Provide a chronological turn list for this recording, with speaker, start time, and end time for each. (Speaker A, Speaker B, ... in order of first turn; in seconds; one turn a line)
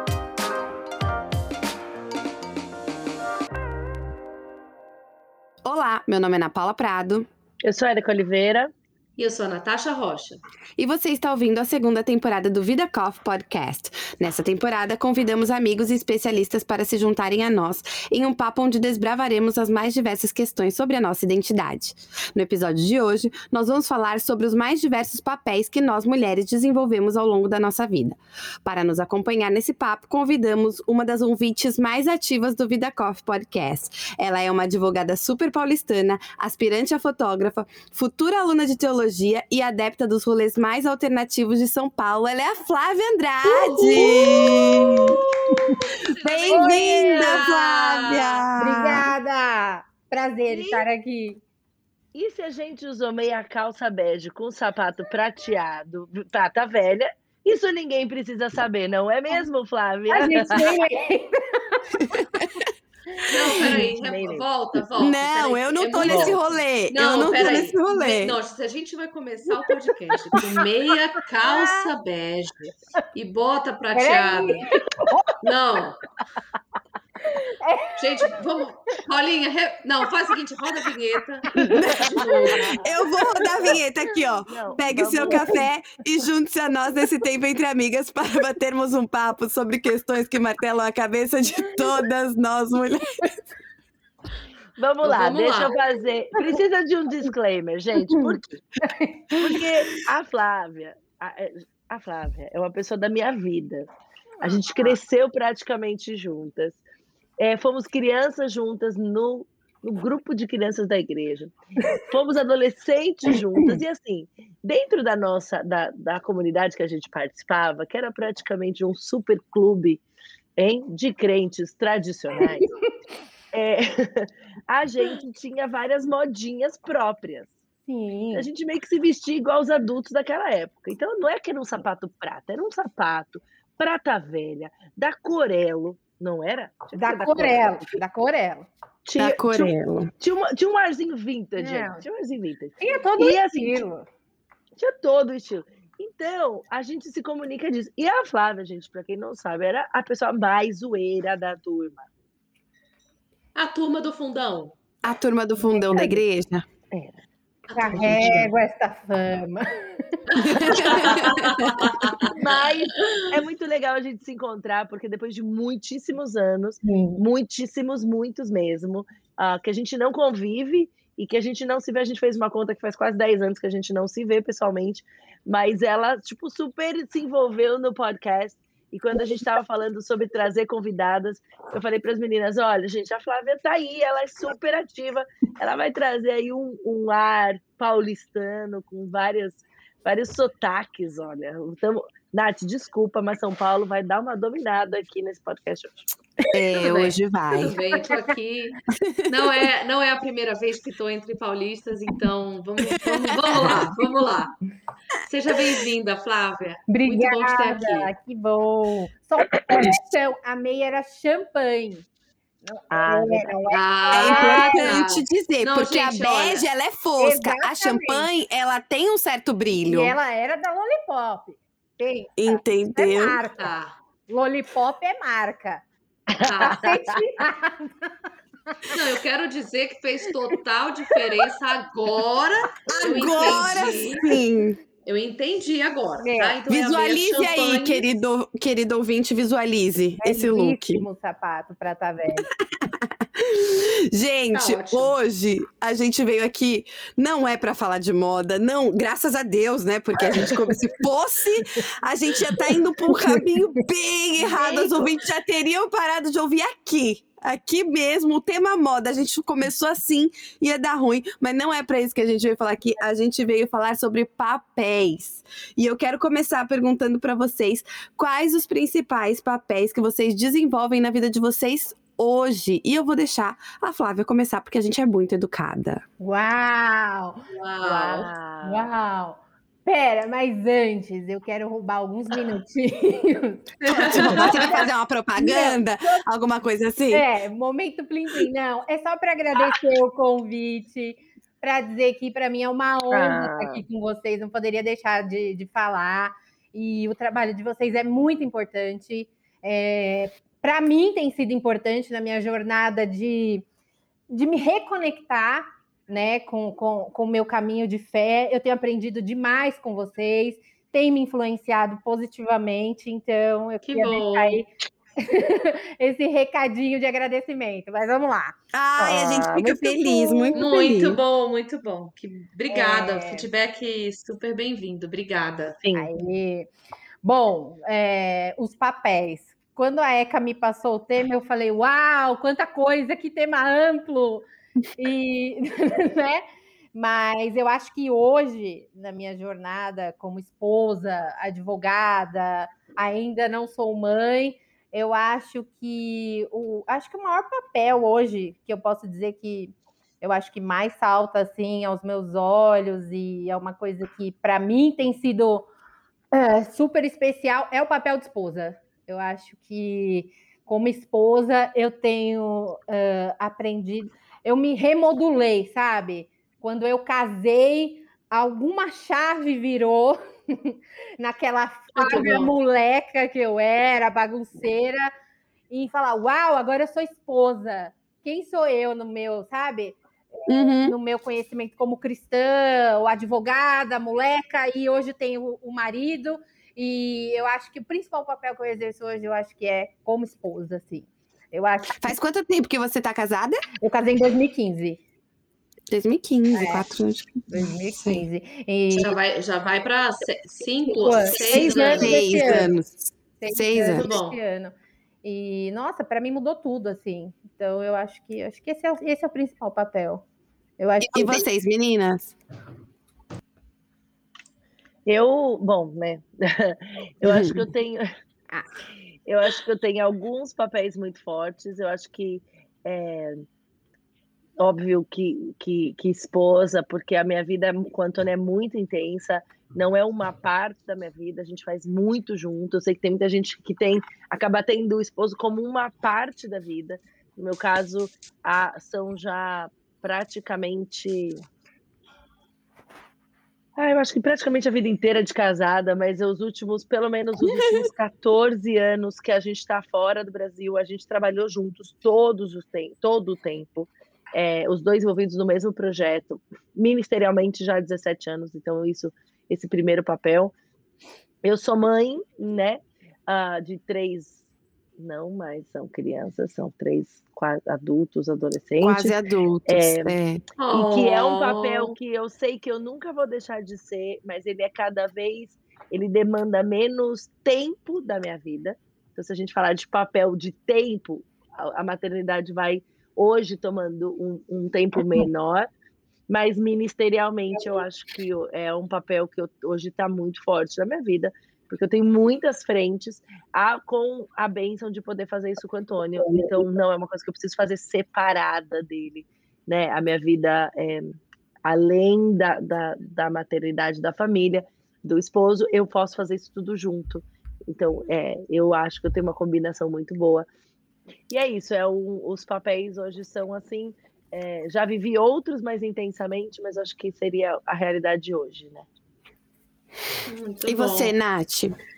Speaker A: 5.6-7.3
Speaker B: 7.6-8.7
Speaker C: 9.2-10.4
Speaker A: 10.8-45.2
Speaker C: 44.0-45.1
Speaker D: 45.5-45.7
Speaker C: 45.8-48.5
Speaker A: 46.2-49.1
Speaker D: 46.5-47.3
Speaker D: 48.6-51.4
Speaker B: 50.5-50.8
Speaker B: 52.1-60.8
Speaker D: 60.1-61.8
Speaker A: 61.9-62.7
Speaker C: 63.3-66.4
Speaker B: 63.6-64.5
Speaker A: 65.0-68.4
Speaker B: 66.0-66.3
Speaker C: 66.9-74.7
Speaker D: 71.4-71.9
Speaker D: 74.0-75.4
Speaker C: 75.4-76.0
Speaker D: 77.2-78.5
Speaker C: 78.0-82.8
Speaker D: 81.5-83.7
Speaker B: 81.6-82.9
Speaker A: 81.8-82.2
Speaker A: 82.8-93.4
Speaker B: 84.5-85.6
Speaker D: 85.3-85.6
Speaker B: 94.8-98.6
Speaker C: 95.0-95.8
Speaker D: 98.2-99.2
Speaker B: 99.4-103.9
Speaker B: 104.4-106.8
Speaker B: 107.4-120.0
Speaker B: 120.6-122.7
Speaker D: 122.4-122.9
Speaker B: 123.5-127.5
Speaker D: 127.9-128.5
Speaker B: 128.3-137.8
Speaker D: 136.9-138.7
Speaker B: 139.0-143.8
Speaker A: 139.2-140.1
Speaker D: 141.6-142.0
Speaker D: 142.8-144.1
Speaker B: 144.8-152.1
Speaker C: 153.6-154.7
Speaker A: 155.0-156.7
Speaker B: 155.9-156.2
Speaker B: 156.9-157.2
Speaker C: 157.7-158.4
Speaker D: 157.8-161.2
Speaker B: 157.9-158.5
Speaker C: 160.3-162.4
Speaker A: 160.3-161.8
Speaker B: 160.7-161.3
Speaker B: 162.3-196.1
Speaker D: 166.8-167.2
Speaker A: 196.5-197.8
Speaker C: 196.7-204.5
Speaker A: 198.9-199.5
Speaker A: 203.0-203.9
Speaker D: 203.6-204.0
Speaker C: 205.2-208.1
Speaker D: 206.9-212.1
Speaker D: 212.7-214.9
Speaker B: 212.9-213.6
Speaker C: 213.7-216.7
Speaker A: 214.1-220.2
Speaker D: 217.2-218.3
Speaker D: 219.9-223.7
Speaker A: 222.4-223.4
Speaker C: 223.6-223.9
Speaker D: 224.3-225.8
Speaker B: 226.3-227.2
Speaker C: 226.4-226.9
Speaker D: 226.6-228.1
Speaker C: 228.9-234.4
Speaker A: 232.9-234.8
Speaker C: 235.0-238.1
Speaker D: 236.2-236.6
Speaker A: 236.7-241.1
Speaker D: 240.2-242.5
Speaker A: 242.7-276.0
Speaker C: 244.5-245.1
Speaker D: 276.2-277.4
Speaker C: 277.5-278.3
Speaker B: 277.8-278.9
Speaker D: 278.6-284.8
Speaker C: 283.8-284.6
Speaker A: 284.1-287.2
Speaker D: 285.4-286.2
Speaker D: 287.1-303.6
Speaker B: 293.1-293.8
Speaker D: 304.3-314.7
Speaker C: 313.9-314.6
Speaker D: 315.2-318.6
Speaker A: 318.7-321.2
Speaker B: 319.0-320.1
Speaker D: 320.3-320.6
Speaker C: 320.5-325.8
Speaker D: 322.7-323.5
Speaker B: 325.8-326.1
Speaker D: 325.9-326.7
Speaker D: 327.2-355.7
Speaker D: 356.3-375.1
Speaker C: 371.9-372.6
Speaker D: 375.7-392.1
Speaker A: 380.5-380.9
Speaker A: 392.0-393.6
Speaker D: 393.8-395.0
Speaker A: 395.9-398.2
Speaker D: 396.5-396.9
Speaker D: 397.5-399.1
Speaker C: 399.0-402.6
Speaker D: 400.9-402.7
Speaker A: 401.3-404.1
Speaker D: 403.4-410.2
Speaker C: 403.8-404.4
Speaker D: 410.8-411.5
Speaker A: 411.0-412.3
Speaker B: 415.1-418.0
Speaker A: 417.2-417.6
Speaker B: 419.2-423.5
Speaker B: 424.6-441.4
Speaker B: 443.8-460.5
Speaker A: 447.4-447.9
Speaker B: 461.4-464.4
Speaker B: 465.0-470.1
Speaker A: 468.8-470.4
Speaker C: 470.6-471.9
Speaker B: 470.7-485.7
Speaker B: 486.3-510.4
Speaker B: 511.3-518.9
Speaker C: 520.2-521.1
Speaker A: 520.6-521.8